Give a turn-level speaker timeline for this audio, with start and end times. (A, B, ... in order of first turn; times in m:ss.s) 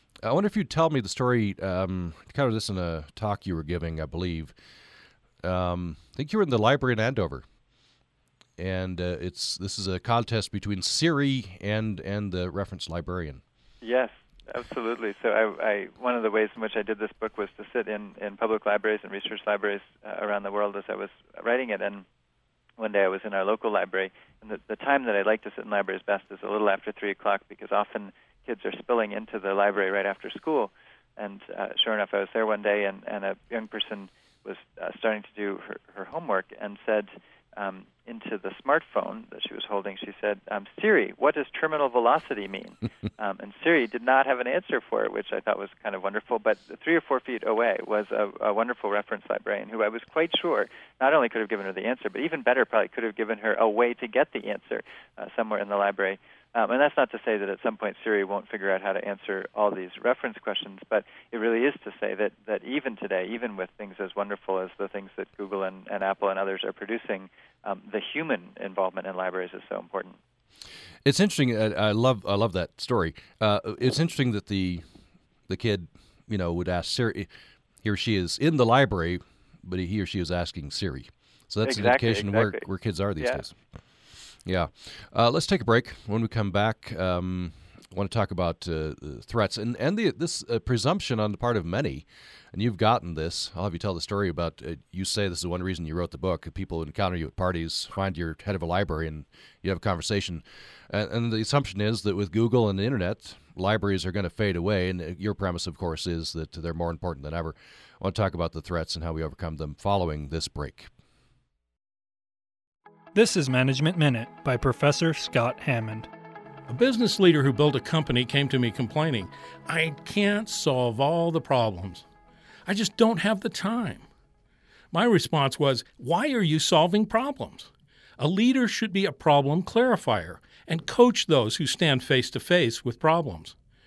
0:00.2-0:04.5 A
0:05.4-0:07.4 A
0:08.6-0:13.4 A
0:13.8-0:22.0 B
0:22.8-1:10.2 B
1:11.0-1:14.8 A
1:15.5-1:17.3 A
1:17.8-1:23.5 A
1:21.6-1:22.6 B
1:24.4-1:50.9 A
1:53.1-1:56.1 C
1:56.7-2:02.0 D
2:02.6-2:04.1 D
2:04.9-2:13.5 D